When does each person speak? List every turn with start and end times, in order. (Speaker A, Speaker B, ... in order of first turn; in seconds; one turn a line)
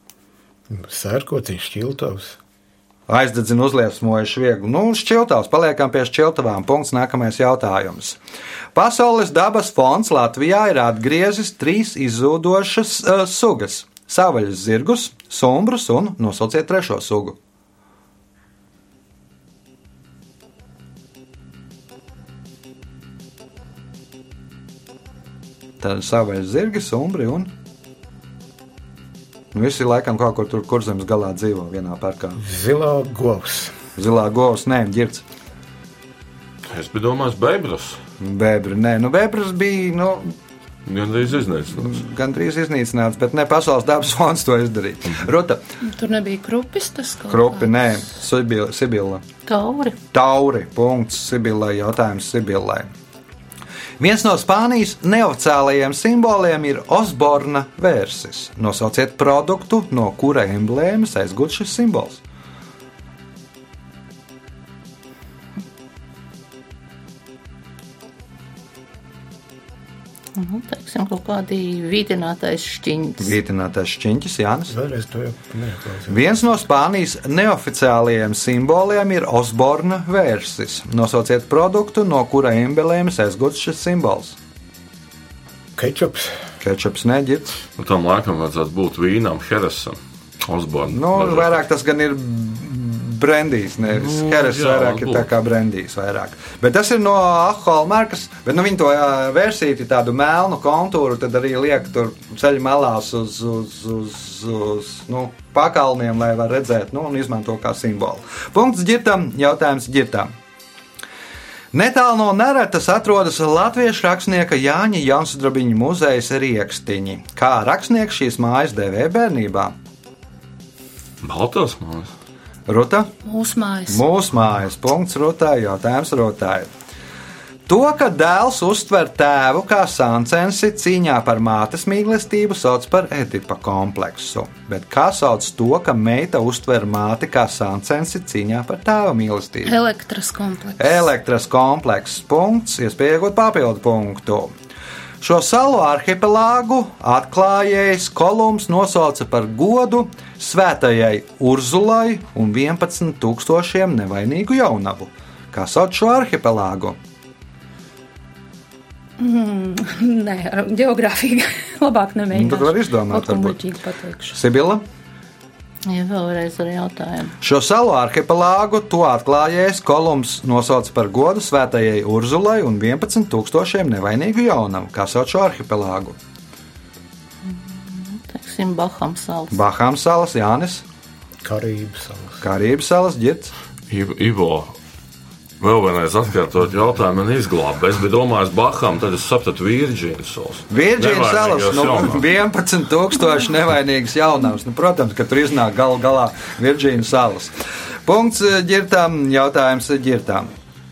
Speaker A: 0.7-2.4
Speaker B: 3.1-8.2
Speaker B: 8.7-17.4
Speaker B: 25.8-27.5
Speaker B: 29.5-32.4
Speaker A: 32.4-33.8
Speaker B: 34.0-35.2
Speaker C: 36.7-38.0
Speaker B: 38.2-40.4
Speaker C: 40.8-42.0
Speaker B: 41.7-45.6
Speaker D: 45.8-47.7
Speaker B: 47.3-49.2
Speaker E: 49.5-50.0
Speaker B: 50.1-52.9
Speaker B: 54.0-62.2
Speaker E: 70.3-73.3
Speaker B: 73.2-74.7
Speaker A: 74.7-76.2
Speaker B: 76.1-84.3
Speaker A: 85.8-86.4
Speaker B: 86.6-87.6
Speaker C: 87.8-91.6
Speaker B: 90.9-110.3
Speaker C: 93.9-95.3
Speaker B: 111.7-119.7
Speaker C: 121.2-122.1
Speaker B: 122.7-123.1
Speaker D: 123.2-124.0
Speaker B: 123.9-126.7
Speaker B: 127.7-139.8
Speaker D: 139.6-141.0
Speaker B: 140.8-144.5
Speaker B: 145.2-157.0
Speaker D: 159.2-164.4
Speaker B: 162.3-163.6
Speaker B: 164.3-164.8
Speaker E: 165.8-167.3
Speaker B: 167.4-176.2
Speaker E: 177.4-179.6
Speaker B: 179.5-180.8
Speaker A: 181.4-182.4
Speaker B: 182.4-183.5
Speaker C: 183.9-184.8
Speaker C: 185.6-192.3
Speaker B: 190.7-200.5